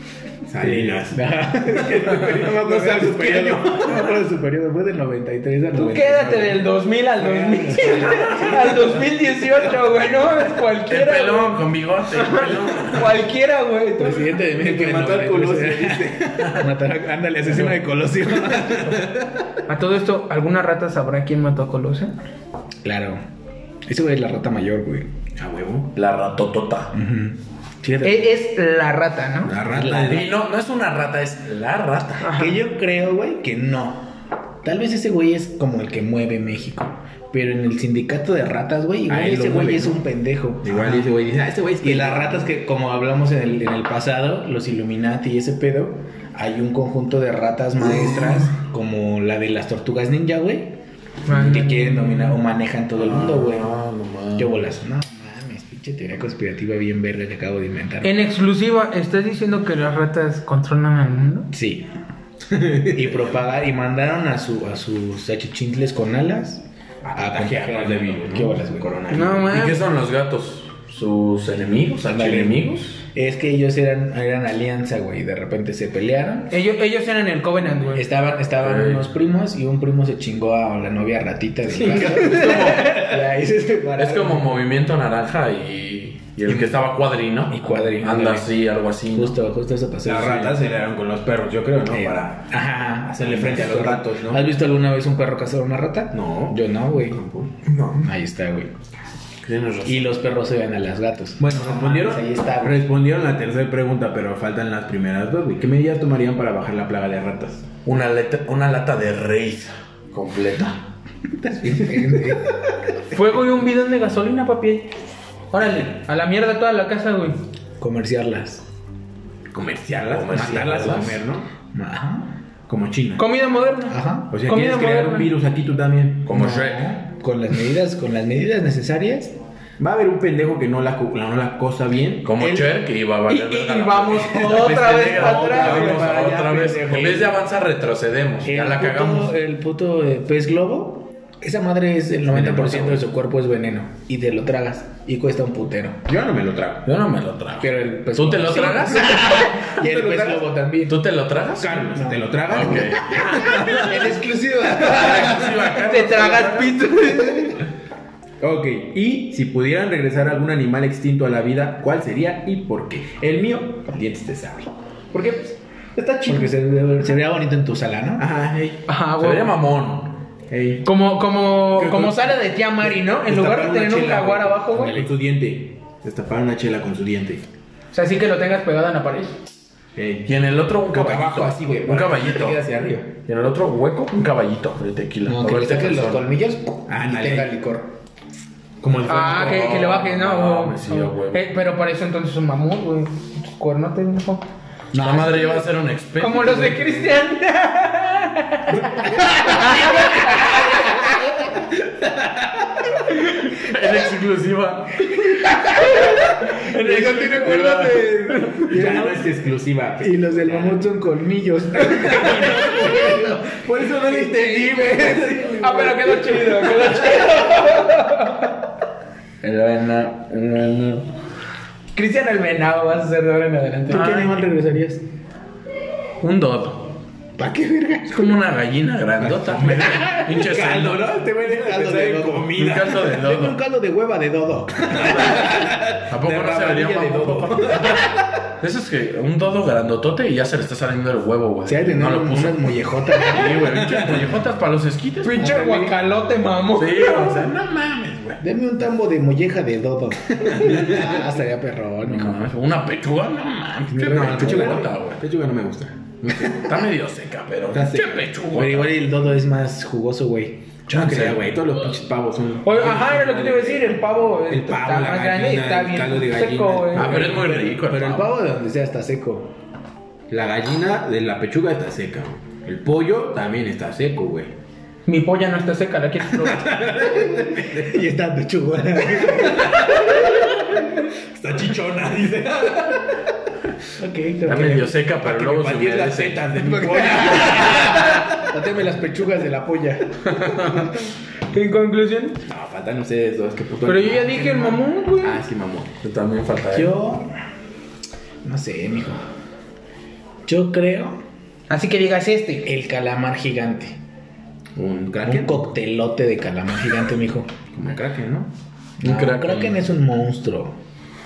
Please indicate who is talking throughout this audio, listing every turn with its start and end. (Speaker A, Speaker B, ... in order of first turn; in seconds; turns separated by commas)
Speaker A: 0.5-4.2, Speaker B: 0.6-6.7, Speaker C: 5.8-14.3, Speaker B: 7.3-8.1, Speaker A: 7.4-8.4, Speaker D: 10.9-13.2, Speaker B: 14.0-19.1, Speaker A: 14.5-16.6, Speaker A: 18.3-19.4, Speaker C: 19.7-22.1, Speaker B: 22.8-23.2, Speaker B: 23.9-25.1, Speaker A: 25.4-25.9, Speaker D: 25.9-26.9, Speaker B: 26.9-28.3, Speaker C: 28.0-29.6, Speaker A: 29.4-30.4, Speaker B: 29.7-30.3, Speaker D: 29.9-32.3, Speaker C: 32.2-32.6, Speaker B: 32.4-34.1, Speaker B: 34.6-41.1, Speaker A: 39.1-40.0, Speaker A: 40.6-42.5, Speaker B: 41.8-50.7, Speaker C: 51.2-52.4, Speaker B: 51.3-53.8, Speaker D: 53.0-54.6, Speaker B: 54.4-58.1, Speaker C: 58.0-61.5, Speaker B: 61.5-61.9, Speaker A: 62.5-63.1, Speaker B: 62.8-66.6, Speaker A: 67.0-69.7, Speaker B: 67.2-69.2, Speaker C: 69.1-69.8, Speaker D: 69.5-73.0, Speaker B: 72.1-72.6, Speaker B: 73.1-76.5, Speaker C: 76.5-78.1, Speaker B: 77.9-84.6, Speaker D: 78.6-79.1, Speaker C: 81.8-83.0, Speaker D: 81.8-83.1, Speaker D: 84.0-89.4, Speaker A: 86.5-86.7, Speaker B: 87.5-90.6, Speaker A: 90.0-92.5, Speaker B: 91.9-97.2, Speaker A: 93.0-94.5, Speaker A: 96.1-97.7, Speaker B: 97.9-98.7, Speaker D: 99.4-100.1, Speaker B: 99.8-102.8, Speaker A: 101.4-107.7, Speaker D: 107.8-110.8, Speaker B: 111.3-112.5, Speaker A: 111.7-112.4, Speaker C: 113.1-114.9, Speaker C: 115.5-117.4, Speaker B: 117.8-118.6, Speaker A: 119.5-121.5, Speaker D: 120.1-121.2, Speaker B: 120.3-121.2, Speaker B: 121.7-122.3, Speaker A: 122.7-123.2, Speaker C: 123.2-125.3, Speaker B: 123.9-124.3, Speaker A: 124.3-126.3, Speaker D: 126.2-126.9, Speaker B: 126.3-129.3, Speaker A: 129.8-132.8, Speaker D: 132.2-139.3, Speaker C: 133.3-136.1, Speaker A: 134.5-137.3, Speaker B: 136.8-137.3, Speaker B: 138.4-146.1, Speaker A: 142.3-143.0, Speaker A: 146.1-146.9, Speaker D: 146.8-149.4, Speaker B: 147.6-151.0, Speaker A: 149.0-150.5, Speaker D: 150.9-151.9, Speaker A: 151.6-154.2, Speaker B: 151.9-155.6, Speaker D: 152.5-153.4, Speaker D: 154.8-156.8, Speaker A: 154.8-155.5, Speaker C: 155.8-157.6, Speaker A: 158.4-166.6, Speaker B: 166.3-168.3, Speaker A: 168.2-168.8, Speaker C: 168.9-169.6, Speaker D: 169.2-170.2, Speaker A: 170.5-170.9, Speaker C: 170.8-175.0, Speaker A: 171.7-177.4, Speaker B: 174.8-175.1, Speaker C: 177.9-179.4, Speaker A: 180.0-180.3, Speaker D: 180.3-182.6, Speaker A: 180.8-183.1, Speaker D: 183.3-186.2, Speaker B: 185.2-187.9, Speaker A: 186.9-187.5, Speaker A: 188.8-189.7, Speaker D: 188.9-191.4, Speaker C: 189.1-194.5, Speaker B: 194.9-195.7, Speaker D: 194.9-197.1, Speaker C: 196.2-200.5, Speaker A: 198.7-200.7, Speaker A: 201.8-202.6, Speaker D: 203.1-205.3, Speaker B: 205.9-207.8, Speaker D: 206.5-208.3, Speaker A: 206.8-210.9, Speaker B: 208.5-209.3, Speaker B: 210.0-215.8, Speaker A: 211.9-217.3, Speaker C: 214.3-218.6, Speaker B: 219.4-221.0, Speaker C: 221.9-224.2, Speaker B: 223.9-225.0, Speaker D: 223.9-224.4, Speaker D: 226.2-227.0, Speaker B: 227.4-228.4, Speaker D: 228.1-231.1, Speaker A: 229.2-233.1, Speaker B: 231.4-235.5, Speaker D: 232.6-233.6, Speaker A: 234.9-238.2, Speaker D: 234.9-238.0, Speaker D: 238.6-245.6, Speaker B: 241.7-243.8, Speaker A: 243.6-244.2, Speaker C: 245.2-247.5, Speaker B: 245.4-246.0, Speaker D: 246.7-248.4, Speaker B: 248.4-252.5, Speaker A: 250.3-251.3, Speaker D: 252.1-255.2, Speaker A: 253.9-256.9, Speaker B: 254.1-254.9, Speaker D: 256.5-258.9, Speaker A: 257.7-258.9, Speaker B: 258.5-260.6, Speaker D: 260.9-261.4, Speaker A: 260.9-267.5, Speaker C: 262.6-267.1, Speaker D: 266.9-268.3, Speaker B: 267.0-269.5, Speaker A: 270.3-274.5, Speaker C: 275.1-276.9, Speaker A: 276.4-278.0, Speaker B: 277.5-280.1, Speaker A: 279.2-283.2, Speaker B: 284.0-285.0, Speaker D: 284.5-286.6, Speaker A: 285.1-288.5, Speaker B: 286.5-290.3, Speaker D: 290.2-291.0, Speaker C: 291.5-292.4, Speaker A: 292.5-296.0, Speaker C: 293.9-295.4, Speaker D: 296.0-297.0, Speaker B: 296.7-297.3, Speaker B: 298.4-299.2, Speaker B: 300.5-301.2, Speaker C: 301.7-302.7, Speaker B: 302.6-304.0, Speaker A: 304.8-305.6, Speaker B: 305.2-307.5, Speaker A: 307.7-308.5, Speaker B: 309.0-310.7, Speaker D: 309.0-309.8